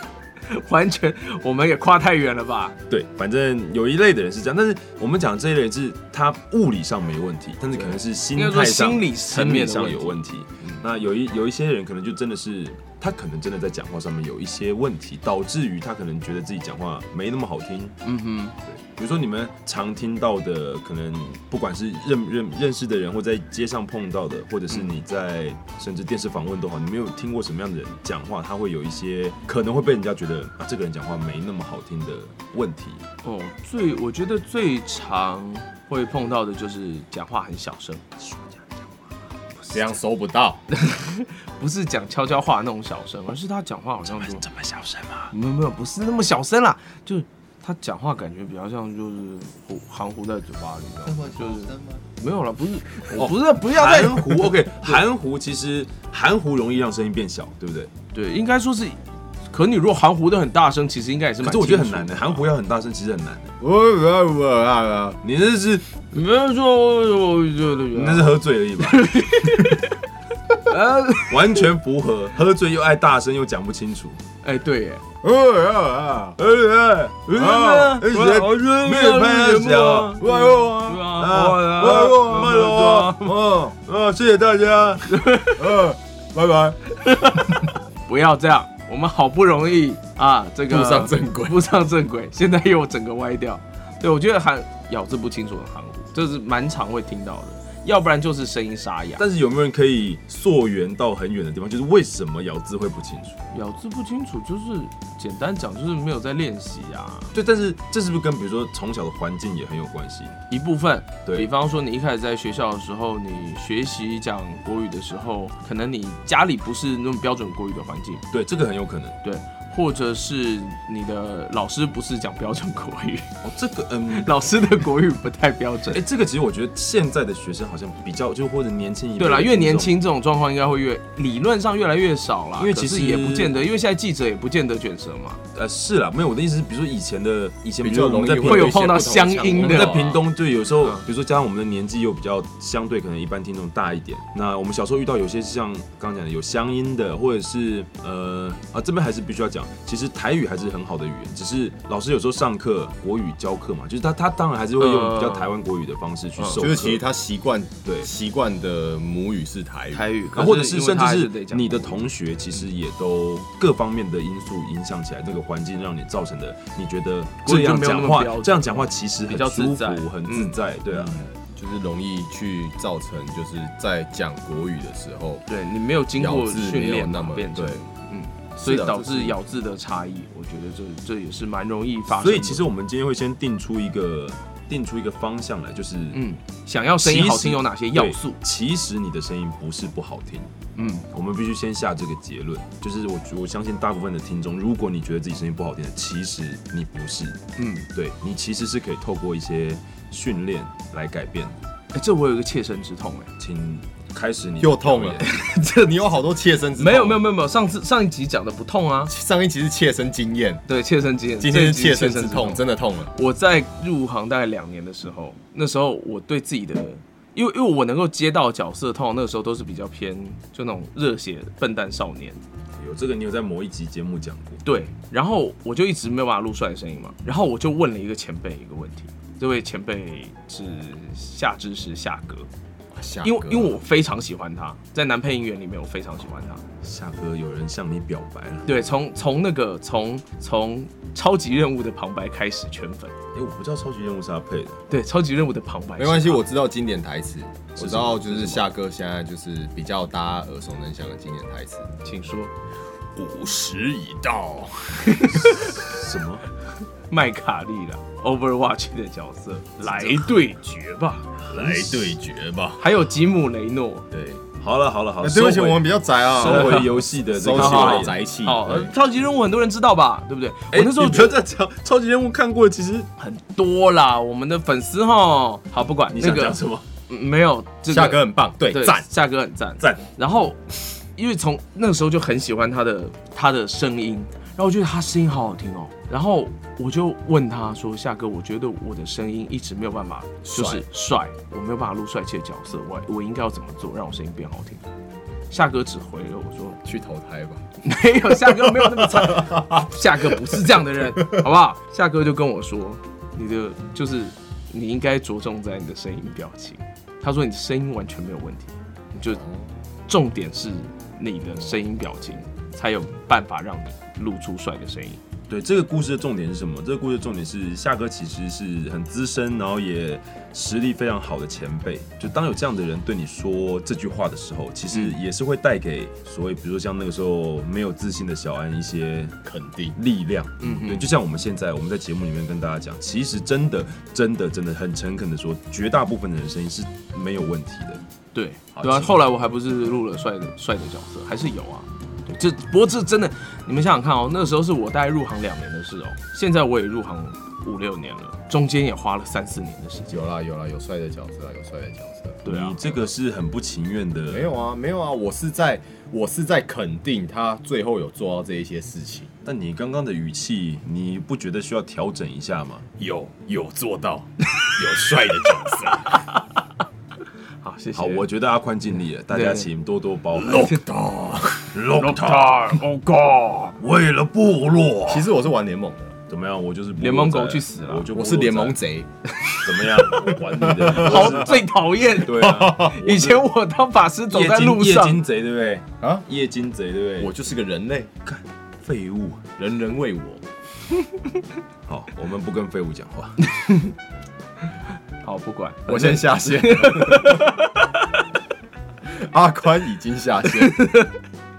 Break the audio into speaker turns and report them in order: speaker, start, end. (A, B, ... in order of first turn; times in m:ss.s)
0:00.5-0:02.8 A
0:02.9-0:18.0 B
0:07.9-0:10.8 A
0:18.0-0:18.6 A
0:18.6-0:33.0 B
0:33.2-0:38.0 A
0:38.2-0:38.8 B
0:39.7-0:40.6 C
0:40.7-0:44.4 A
0:44.0-0:45.3 B
0:45.3-0:54.9 A
0:51.0-0:52.0 C
0:53.1-0:57.9 B
0:58.1-0:59.0 A
0:59.5-1:02.4 A
1:01.4-1:03.5 B
1:03.6-1:05.2 C
1:05.2-1:05.8 B
1:06.1-1:10.0 A
1:07.9-1:09.1 B
1:10.6-1:11.6 A
1:11.3-1:14.2 B
1:14.4-1:15.0 A
1:15.2-1:16.4 C
1:16.4-1:20.2 B
1:17.3-1:22.9 A
1:17.4-1:18.5 C
1:20.2-1:23.7 C
1:21.0-1:25.2 B
1:25.1-1:25.8 A
1:25.6-1:27.4 C
1:27.0-1:39.2 A
1:30.7-1:31.6 C
1:39.2-1:43.4 B
1:43.5-1:47.3 A
1:47.3-1:50.4 B
1:50.5-1:58.2 A
1:58.3-1:59.2 B
1:59.2-2:03.3 A
2:03.4-2:04.3 B
2:04.1-2:06.0 A
2:05.9-2:09.9 B
2:09.2-2:15.4 A
2:12.6-2:13.6 B
2:15.5-2:19.0 B
2:17.8-2:20.2 C
2:18.4-2:20.2 A
2:19.6-2:37.0 B
2:34.8-2:35.5 A
2:36.4-2:36.6 A
2:36.6-2:40.0 C
2:39.9-2:42.0 A
2:40.3-2:51.2 B
2:47.4-2:50.5 A
2:50.9-2:55.4 C
2:55.5-3:02.7 A
2:56.2-2:57.8 C
2:58.6-2:59.4 C
3:02.1-3:06.2 B
3:06.1-3:08.4 A
3:07.0-3:10.5 B
3:10.7-3:11.1 A
3:11.1-3:17.4 B
3:17.6-3:17.9 A
3:17.9-3:21.6 B
3:21.9-3:23.3 A
3:23.4-3:25.2 B
3:24.6-3:27.2 C
3:25.2-3:25.8 A
3:26.8-3:29.1 A
3:29.1-3:30.6 C
3:30.7-3:32.6 A
3:31.4-3:33.1 C
3:33.1-3:42.4 A
3:42.8-3:44.6 B
3:44.6-3:52.5 A
3:52.9-3:53.8 C
3:53.2-3:56.6 A
3:56.8-3:58.7 B
3:58.7-4:03.1 A
4:03.3-4:04.8 B
4:04.9-4:06.4 A
4:06.0-4:12.0 C
4:07.8-4:08.6 B
4:12.0-4:12.5 A
4:13.2-4:15.4 C
4:15.0-4:15.7 A
4:15.7-4:16.4 B
4:17.1-4:21.3 A
4:19.8-4:20.2 B
4:21.4-4:22.2 B
4:21.5-4:22.9 C
4:22.8-4:24.1 A
4:24.1-4:24.4 C
4:24.6-4:28.2 B
4:25.2-4:28.9 C
4:26.4-4:27.0 A
4:27.6-4:31.4 A
4:30.7-4:33.1 B
4:33.2-4:40.6 A
4:36.1-4:36.8 B
4:37.9-4:39.1 C
4:39.8-4:40.0 B
4:41.1-4:54.8 A
4:50.4-4:50.8 C
4:55.5-4:56.8 A
4:56.8-4:57.6 C
4:57.8-5:09.4 A
4:58.4-5:00.7 C
5:10.1-5:15.2 A
5:15.5-5:29.4 B
5:29.4-5:29.9 C
5:29.9-5:38.0 B
5:30.6-5:31.1 A
5:38.3-5:50.2 A
5:38.7-5:39.1 B
5:50.1-5:52.4 C
5:52.4-5:52.8 A
5:52.4-5:54.5 B
5:54.3-5:59.3 C
5:59.4-6:02.9 B
6:03.0-6:06.2 C
6:05.9-6:06.4 A
6:07.6-6:08.2 A
6:07.9-6:10.7 B
6:09.3-6:09.7 A
6:10.4-6:11.7 C
6:10.5-6:10.8 A
6:11.7-6:12.8 B
6:11.9-6:13.8 A
6:13.8-6:15.3 B
6:15.1-6:16.2 C
6:16.3-6:18.8 B
6:17.0-6:18.1 A
6:18.1-6:19.1 C
6:19.4-6:25.2 A
6:19.6-6:21.6 B
6:20.4-6:21.6 C
6:22.2-6:23.5 B
6:22.2-6:23.0 C
6:24.3-6:27.3 B
6:27.2-6:28.1 C
6:28.2-6:29.4 B
6:29.6-6:30.4 C
6:31.8-6:33.4 B
6:33.4-6:33.9 A
6:35.2-6:38.2 A
6:35.9-6:37.5 C
6:39.1-6:40.8 C
6:40.4-6:41.1 A